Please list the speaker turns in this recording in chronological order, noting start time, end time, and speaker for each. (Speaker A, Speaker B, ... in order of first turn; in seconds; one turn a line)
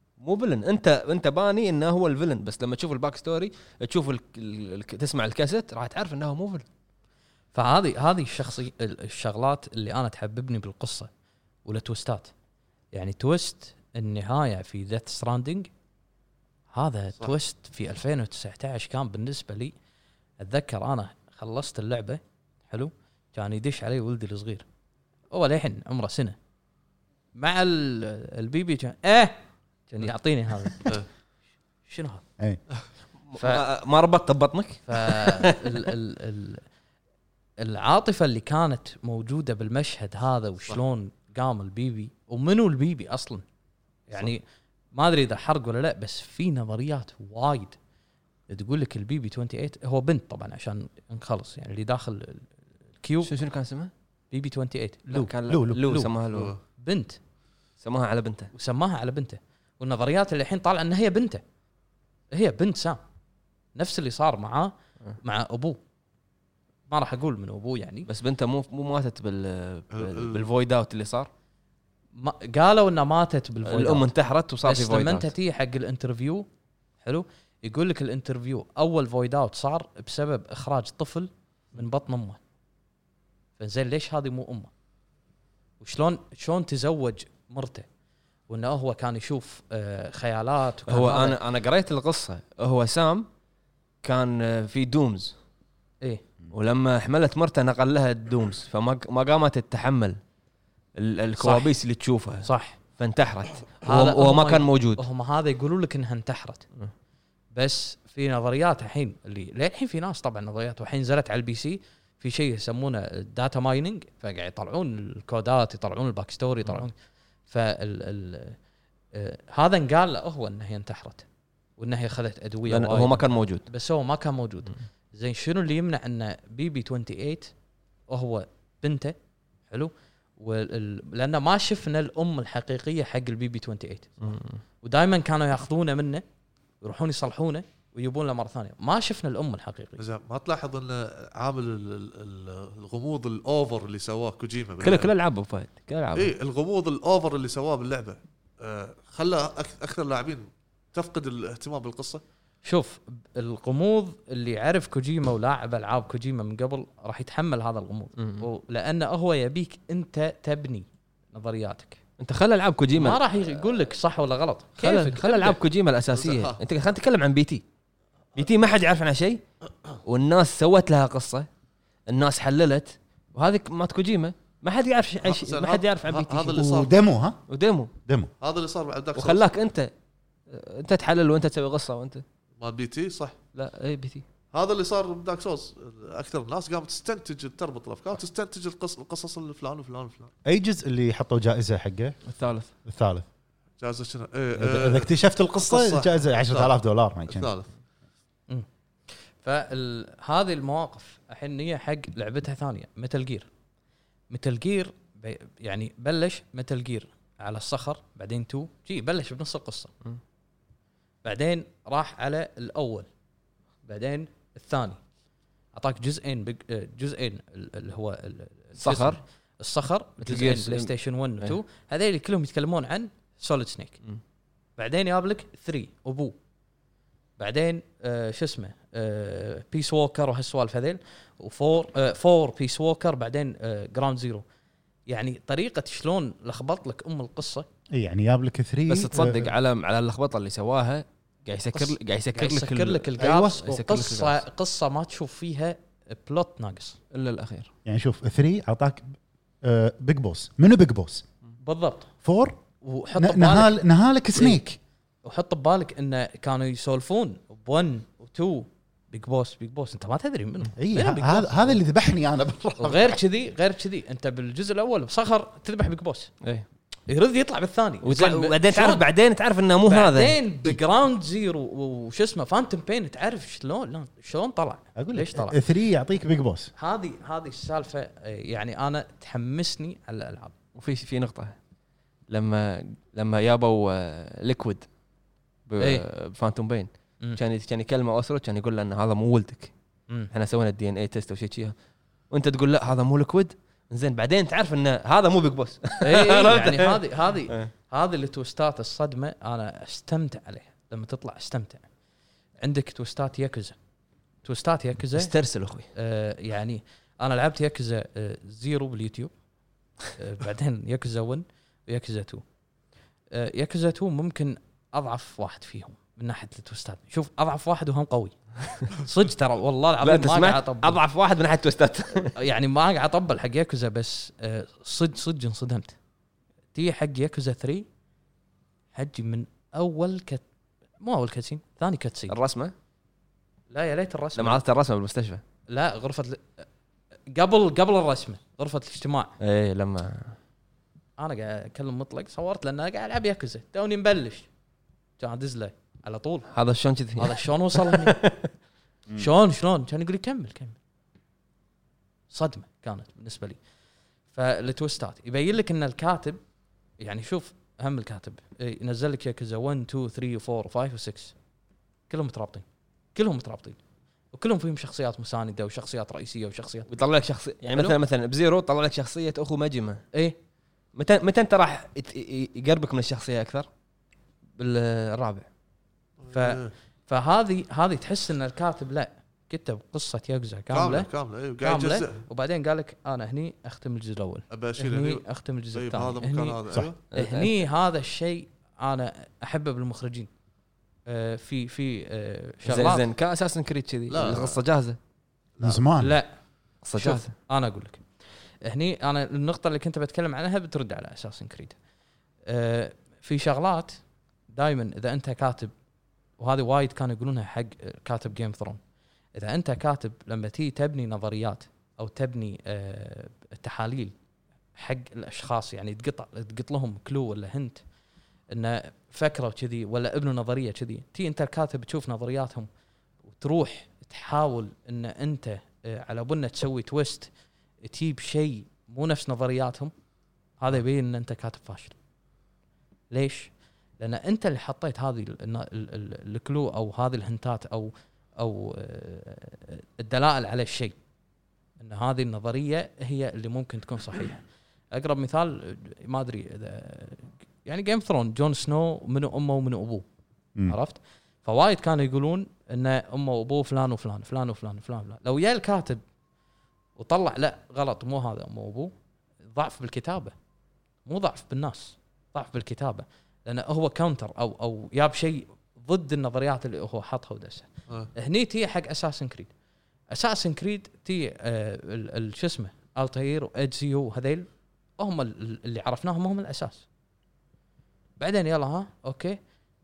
Speaker A: 0.2-6.7
Speaker B: 7.5-11.1
Speaker B: 11.7-12.3
Speaker B: 12.9-15.7
Speaker B: 16.7-19.7
Speaker B: 20.4-24.7
Speaker B: 25.3-26.4
Speaker B: 27.4-31.0
Speaker B: 31.9-32.2
Speaker A: 33.3-35.9
Speaker B: 33.4-33.6
Speaker B: 34.9-36.6
Speaker B: 37.6-43.5
Speaker B: 44.1-44.4
Speaker B: 44.9-47.8
Speaker B: 48.5-53.3
Speaker A: 53.2-53.9
Speaker B: 54.3-55.1
Speaker A: 55.1-56.5
Speaker C: 55.1-56.1
Speaker D: 56.3-56.6
Speaker B: 56.8-57.2
Speaker A: 57.8-58.5
Speaker B: 58.5-61.4
Speaker B: 62.3-63.0
Speaker B: 63.8-65.8
Speaker B: 66.9-68.1
Speaker A: 68.1-71.3
Speaker D: 69.9-70.4
Speaker B: 72.2-74.1
Speaker A: 73.7-75.3
Speaker B: 74.6-76.5
Speaker B: 77.0-82.4
Speaker B: 83.6-84.7
Speaker B: 85.8-87.9
Speaker B: 88.5-91.4
Speaker A: 90.9-93.3
Speaker A: 94.0-95.3
Speaker A: 96.5-100.2
Speaker A: 101.0-105.0
Speaker B: 101.4-101.7
Speaker B: 102.4-102.8
Speaker B: 103.8-106.6
Speaker B: 107.5-116.9
Speaker B: 117.5-118.6
Speaker B: 119.1-121.2
Speaker B: 121.8-127.5
Speaker A: 122.7-123.7
Speaker B: 128.1-129.2
Speaker B: 129.7-136.2
Speaker A: 134.2-134.6
Speaker B: 136.8-140.0
Speaker D: 140.0-145.1
Speaker A: 144.8-146.3
Speaker D: 146.2-152.2
Speaker B: 152.7-162.0
Speaker A: 158.2-158.5
Speaker A: 162.2-163.2
Speaker B: 162.9-165.6
Speaker A: 164.8-167.6
Speaker D: 166.2-166.6
Speaker A: 168.3-169.4
Speaker A: 170.1-171.5
Speaker A: 172.1-176.7
Speaker D: 175.2-176.9
Speaker C: 176.6-177.4
Speaker A: 177.5-177.9
Speaker C: 178.1-178.3
Speaker D: 178.4-179.5
Speaker A: 179.2-179.9
Speaker A: 180.5-182.2
Speaker D: 182.6-183.4
Speaker A: 183.6-184.2
Speaker D: 184.5-190.3
Speaker C: 190.4-192.2
Speaker A: 192.3-192.7
Speaker C: 192.9-193.2
Speaker D: 193.8-195.1
Speaker C: 194.6-197.5
Speaker D: 195.6-196.7
Speaker D: 197.3-197.7
Speaker B: 199.4-203.5
Speaker B: 204.3-209.9
Speaker B: 211.2-213.1
Speaker B: 213.9-215.0
Speaker B: 215.7-224.0
Speaker A: 218.8-219.2
Speaker A: 220.2-221.6
Speaker B: 224.8-226.4
Speaker B: 227.4-234.4
Speaker B: 235.1-237.7
Speaker C: 237.9-239.5
Speaker A: 238.9-244.4
Speaker B: 241.7-247.0
Speaker C: 243.2-243.8
Speaker A: 247.1-247.7
Speaker C: 247.9-251.2
Speaker B: 251.6-252.1
Speaker C: 252.2-252.6
Speaker B: 252.8-253.8
Speaker C: 253.2-254.8
Speaker B: 254.4-254.6
Speaker B: 255.2-261.8
Speaker C: 260.8-263.2
Speaker B: 262.8-266.3
Speaker B: 267.1-269.0
Speaker A: 268.0-270.4
Speaker B: 269.9-275.6
Speaker C: 275.0-276.7
Speaker B: 276.8-280.5
Speaker A: 280.8-281.6
Speaker A: 282.3-284.9
Speaker A: 285.7-289.7
Speaker B: 285.8-286.0
Speaker A: 290.3-291.8
Speaker A: 292.3-297.7
Speaker B: 296.0-301.9
Speaker B: 302.6-303.8
Speaker B: 304.4-305.3
Speaker A: 305.2-305.9
Speaker B: 305.9-309.3
Speaker B: 310.2-312.4
Speaker B: 313.3-321.0
Speaker A: 320.0-322.4
Speaker B: 322.3-326.0
Speaker B: 326.7-327.9
Speaker B: 328.9-330.4
Speaker B: 331.0-332.4
Speaker A: 332.3-332.7
Speaker B: 333.7-334.6
Speaker A: 334.4-335.4
Speaker B: 335.7-336.6
Speaker B: 337.3-339.4
Speaker A: 339.4-340.4
Speaker B: 341.2-344.5
Speaker B: 345.2-346.5
Speaker A: 346.5-348.5
Speaker B: 347.2-348.2
Speaker B: 349.1-350.8
Speaker B: 352.3-353.6
Speaker B: 354.3-356.4
Speaker B: 357.0-361.4
Speaker B: 362.1-363.8
Speaker B: 364.3-366.9
Speaker A: 366.9-370.0
Speaker A: 370.9-373.7
Speaker A: 374.6-375.5
Speaker D: 376.2-376.7
Speaker B: 376.3-381.1
Speaker D: 380.7-382.2
Speaker B: 381.6-390.3
Speaker D: 384.5-387.0
Speaker A: 387.1-387.6
Speaker B: 391.1-393.0
Speaker A: 392.6-395.0
Speaker D: 394.1-394.6
Speaker C: 395.6-396.2
Speaker B: 396.0-396.3
Speaker A: 396.8-397.3
Speaker B: 396.9-398.0
Speaker B: 398.6-401.8
Speaker B: 402.5-405.7
Speaker B: 406.4-408.8
Speaker B: 409.4-414.1
Speaker B: 414.8-417.8
Speaker B: 418.5-422.7
Speaker B: 423.3-427.3
Speaker B: 427.8-429.9
Speaker B: 430.6-432.0
Speaker B: 433.1-441.0
Speaker B: 441.8-450.1
Speaker B: 450.7-456.0
Speaker B: 457.0-458.9
Speaker B: 459.5-460.3
Speaker B: 461.1-469.5
Speaker B: 470.1-474.5
Speaker B: 475.0-476.8
Speaker B: 478.2-479.4